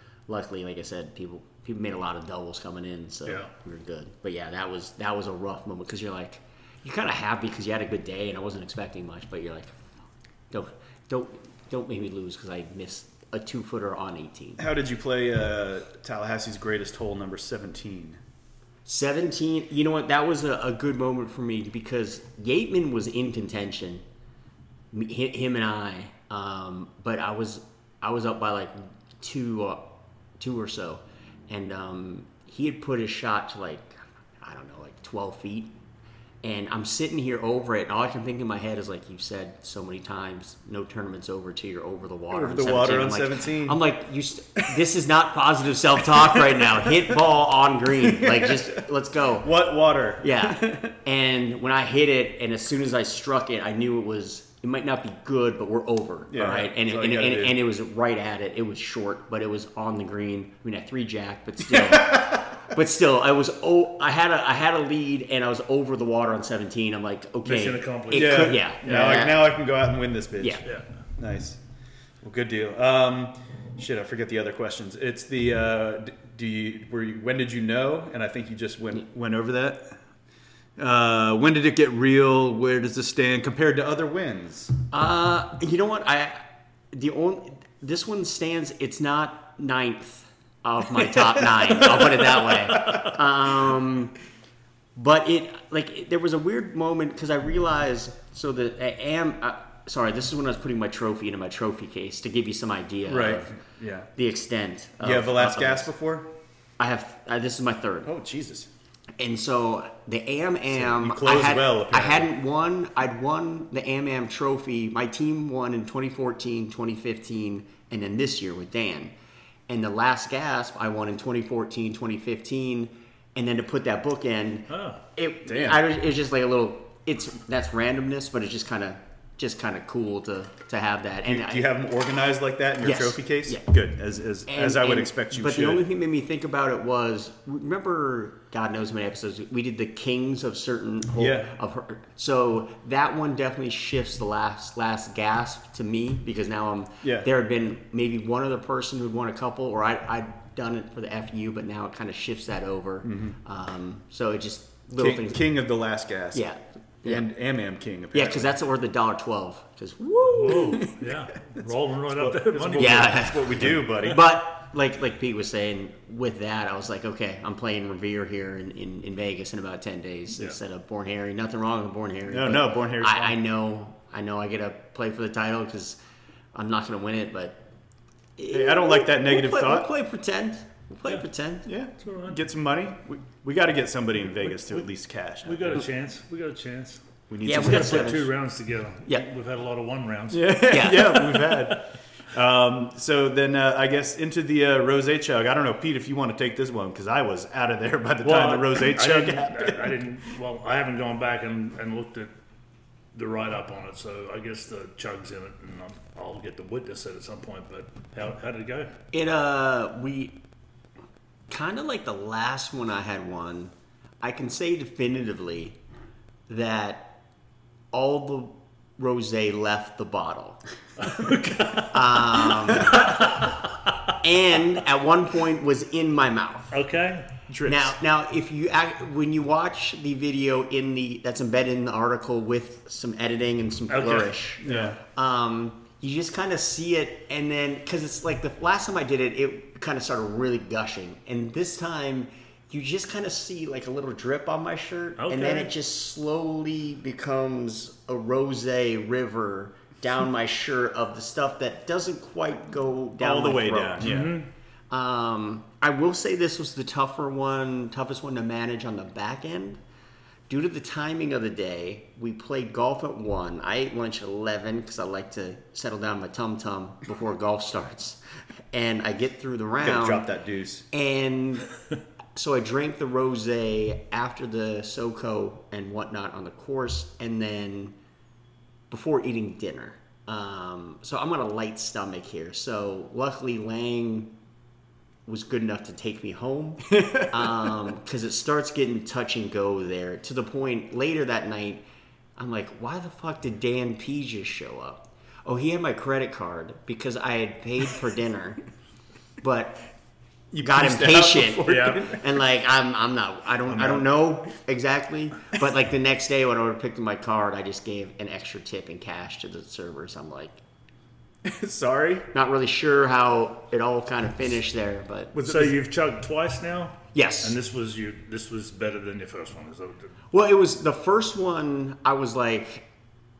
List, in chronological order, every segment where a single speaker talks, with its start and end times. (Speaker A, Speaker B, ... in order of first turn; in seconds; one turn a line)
Speaker A: 0.3-9.7
Speaker B: 3.2-3.5
Speaker A: 10.5-14.6
Speaker C: 14.6-18.2
Speaker A: 18.9-24.0
Speaker A: 24.9-29.8
Speaker A: 30.4-35.7
Speaker A: 36.4-49.5
Speaker C: 42.3-43.8
Speaker C: 46.1-46.9
Speaker C: 48.0-48.7
Speaker C: 49.4-50.9
Speaker A: 50.2-69.4
Speaker C: 56.3-57.5
Speaker C: 61.7-62.6
Speaker B: 67.4-69.0
Speaker C: 68.1-70.6
Speaker C: 71.2-71.6
Speaker C: 72.2-80.0
Speaker C: 80.8-84.7
Speaker A: 84.9-94.1
Speaker C: 91.2-93.1
Speaker A: 95.0-103.6
Speaker C: 103.1-104.1
Speaker A: 104.2-105.9
Speaker C: 105.0-106.3
Speaker A: 106.8-108.1
Speaker C: 108.0-108.7
Speaker A: 109.2-119.1
Speaker C: 110.7-112.3
Speaker A: 119.7-131.7
Speaker B: 124.7-125.0
Speaker C: 125.5-125.8
Speaker C: 131.2-135.8
Speaker A: 132.8-133.6
Speaker A: 134.5-155.4
Speaker C: 141.2-141.5
Speaker C: 147.0-147.3
Speaker C: 153.0-153.3
Speaker C: 155.0-156.4
Speaker A: 156.3-157.2
Speaker C: 157.0-158.5
Speaker A: 158.1-160.9
Speaker B: 160.3-163.7
Speaker C: 160.5-161.1
Speaker C: 162.1-164.3
Speaker A: 162.8-176.0
Speaker C: 172.3-173.4
Speaker A: 176.5-177.6
Speaker A: 178.4-181.7
Speaker C: 178.5-179.9
Speaker C: 181.7-185.9
Speaker B: 182.0-182.4
Speaker B: 184.4-184.9
Speaker B: 185.4-191.1
Speaker C: 187.3-188.2
Speaker A: 187.4-188.3
Speaker C: 190.3-200.0
Speaker A: 190.7-191.3
Speaker B: 198.2-202.3
Speaker B: 203.1-208.9
Speaker A: 209.1-210.4
Speaker A: 211.5-215.8
Speaker A: 216.5-217.2
Speaker A: 217.9-220.6
Speaker B: 221.0-223.9
Speaker A: 221.9-223.2
Speaker A: 224.2-226.8
Speaker B: 226.7-227.3
Speaker C: 227.5-227.9
Speaker A: 227.6-254.1
Speaker B: 233.9-234.3
Speaker C: 234.6-235.0
Speaker B: 245.2-245.7
Speaker C: 253.2-254.4
Speaker B: 254.0-254.5
Speaker A: 254.9-259.8
Speaker A: 260.5-268.2
Speaker A: 268.7-270.2
Speaker C: 269.8-270.9
Speaker A: 270.9-271.7
Speaker A: 272.3-277.9
Speaker A: 278.9-284.3
Speaker A: 285.3-291.8
Speaker C: 286.9-287.7
Speaker A: 292.4-298.6
Speaker A: 299.4-299.8
Speaker C: 300.5-302.3
Speaker A: 300.6-310.6
Speaker B: 301.6-302.0
Speaker C: 303.7-304.1
Speaker C: 311.4-312.3
Speaker A: 312.3-315.3
Speaker C: 315.3-315.8
Speaker B: 315.4-320.1
Speaker A: 317.1-317.6
Speaker A: 320.3-322.9